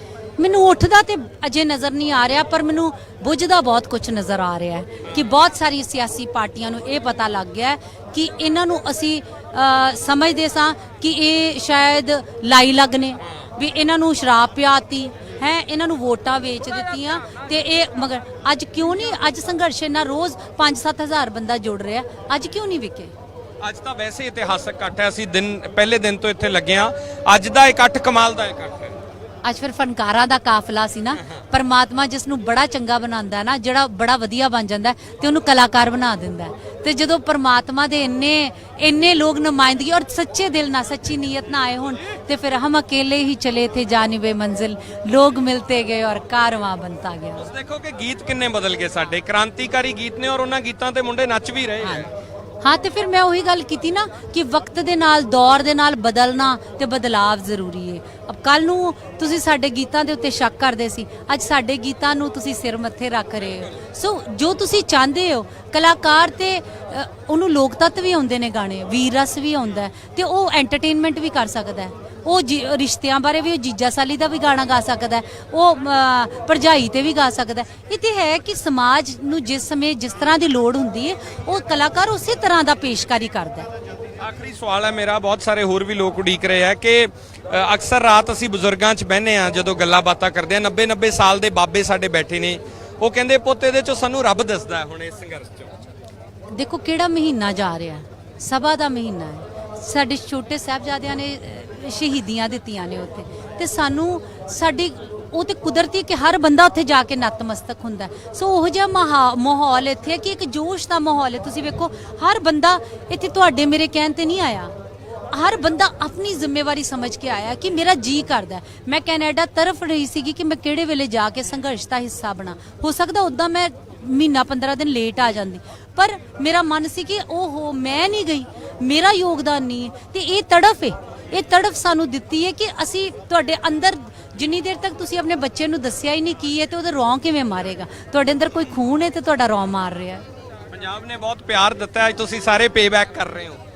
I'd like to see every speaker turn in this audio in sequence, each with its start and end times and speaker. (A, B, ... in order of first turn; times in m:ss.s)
0:00.4-0:23.1 A
0:23.6-0:29.0 B
0:29.4-0:47.4 A
0:47.4-0:52.1 B
0:51.8-0:52.1 A
0:52.6-1:23.7 A
1:24.2-1:35.8 B
1:36.5-1:54.7 A
1:55.3-2:20.2 A
2:20.7-2:23.6 B